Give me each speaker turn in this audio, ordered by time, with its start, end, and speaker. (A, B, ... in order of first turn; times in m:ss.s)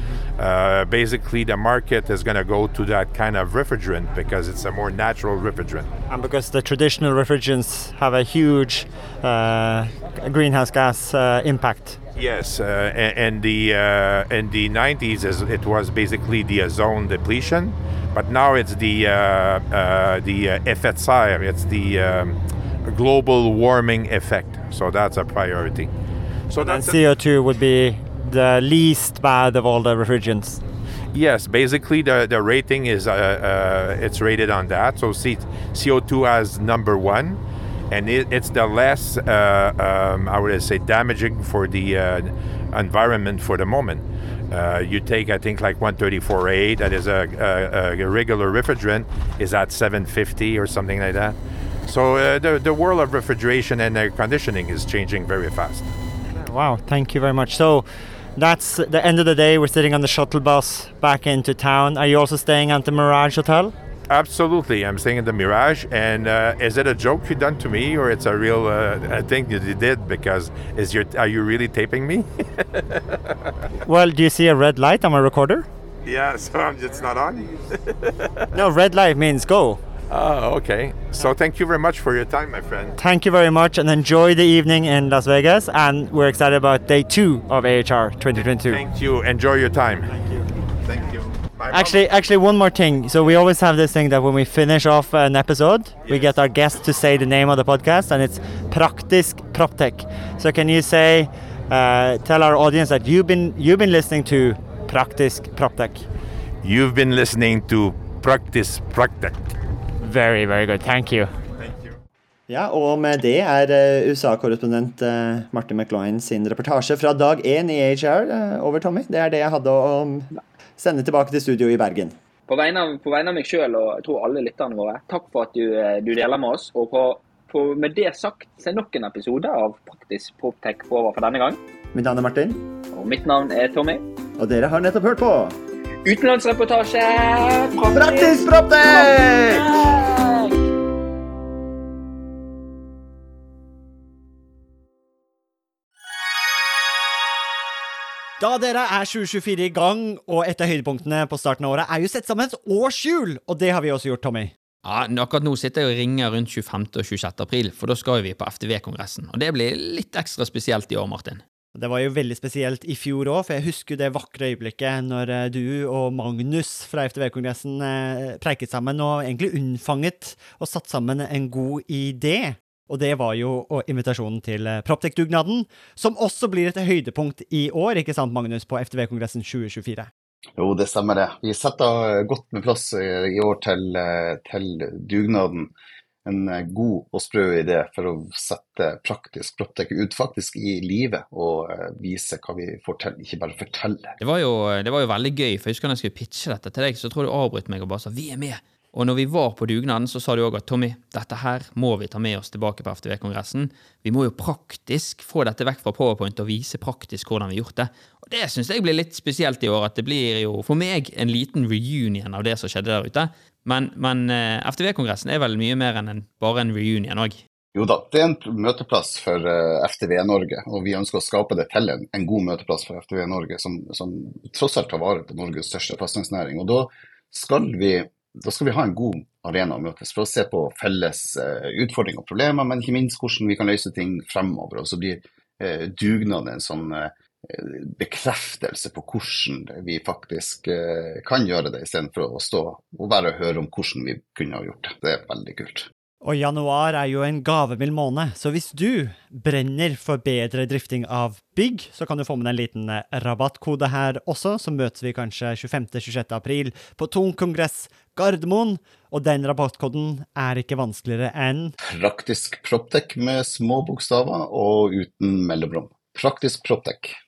0:00.3-0:05.9 A
0:06.1-0:12.0 B
0:12.1-0:25.9 A
0:26.5-0:27.0 A
0:26.6-0:30.6 B
0:31.1-0:37.4 A
0:37.9-0:55.9 A
0:56.3-1:03.7 B
1:04.1-1:13.3 A
1:13.8-1:15.7 B
1:16.0-1:18.4 A
1:18.5-1:19.8 B
1:20.1-1:23.0 A
1:23.0-1:28.8 B
1:28.6-1:30.1 A
1:30.2-1:30.4 B
1:30.8-1:32.0 A
1:31.7-1:46.0 B
1:46.6-1:49.4 A
1:50.0-1:51.3 B
1:52.5-2:02.2 C
2:02.5-2:11.6 D
2:11.9-2:12.6 C
2:12.9-2:14.0 D
2:14.4-2:15.6 C
2:16.0-2:20.6 D
2:17.9-2:19.8 C
2:28.4-2:34.5 B
2:34.8-2:41.4 E
2:41.7-3:00.1 B
3:00.6-3:05.7 F
3:06.2-3:14.2 F
3:14.2-3:37.4 E
3:37.7-4:05.9 F
4:06.2-4:21.7 B
4:21.8-4:27.2 F